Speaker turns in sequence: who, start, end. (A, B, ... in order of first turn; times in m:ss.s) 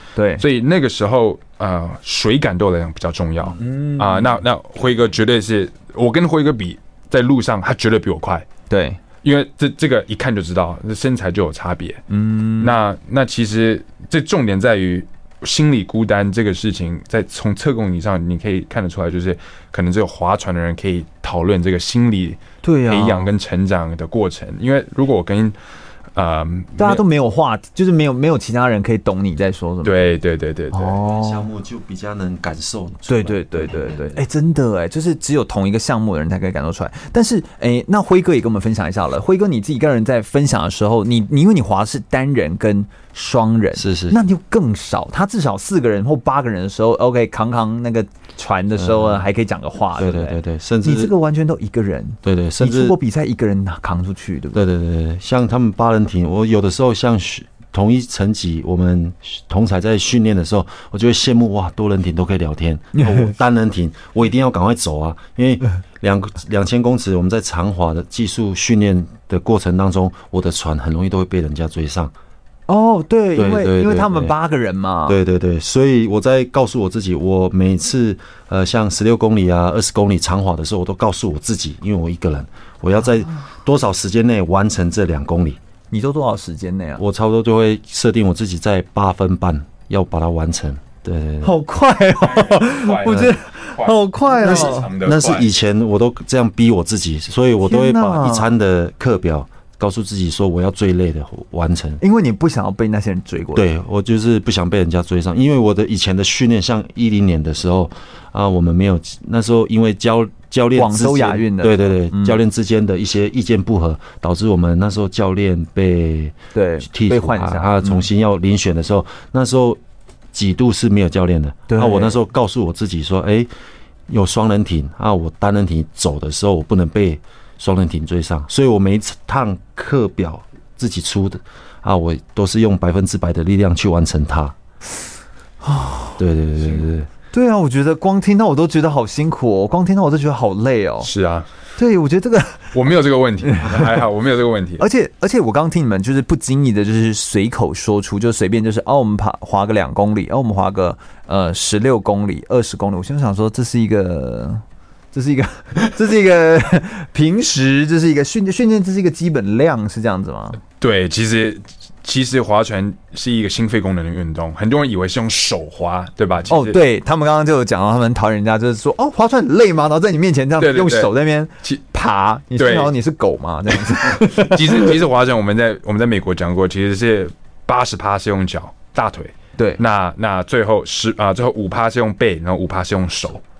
0:00.2-0:00.4 A
0:00.4-0:08.5 B
0:03.6-0:04.4 A
0:08.7-0:09.0 A
0:09.2-0:12.0 B
0:12.1-0:12.8 A
0:12.6-0:25.6 B
0:22.6-0:23.3 A
0:26.1-0:27.0 B
0:26.8-0:30.1 A
0:29.8-0:31.0 B
0:30.7-0:31.4 A
0:31.1-0:34.2 C
0:33.0-0:54.6 A
0:43.7-0:44.2 C
0:48.8-0:49.2 C
0:50.0-0:51.1 C
0:52.2-0:53.0 C
0:54.5-1:12.1 C
1:03.0-1:03.3 A
1:12.7-1:15.2 A
1:13.3-1:14.3 C
1:15.0-1:25.6 C
1:25.9-1:27.0 A
1:27.0-1:31.6 C
1:31.4-1:34.9 A
1:32.2-1:35.5 B
1:33.1-1:33.3 C
1:34.4-1:42.0 C
1:37.6-1:38.5 A
1:42.0-1:43.7 A
1:43.5-1:59.8 C
1:50.8-1:52.4 A
1:56.5-1:58.0 A
2:00.3-2:03.5 C
2:01.7-2:02.2 A
2:04.1-2:14.5 C
2:15.6-2:16.2 A
2:16.2-2:17.1 C
2:17.3-2:21.1 A
2:21.0-2:21.5 B
2:21.8-2:22.7 A
2:22.7-2:24.8 B
2:23.4-2:24.0 A
2:24.8-2:40.6 A
2:40.8-2:46.8 B
2:46.5-2:55.0 A
2:50.6-2:51.1 B
2:52.5-2:52.9 B
2:53.9-3:03.4 B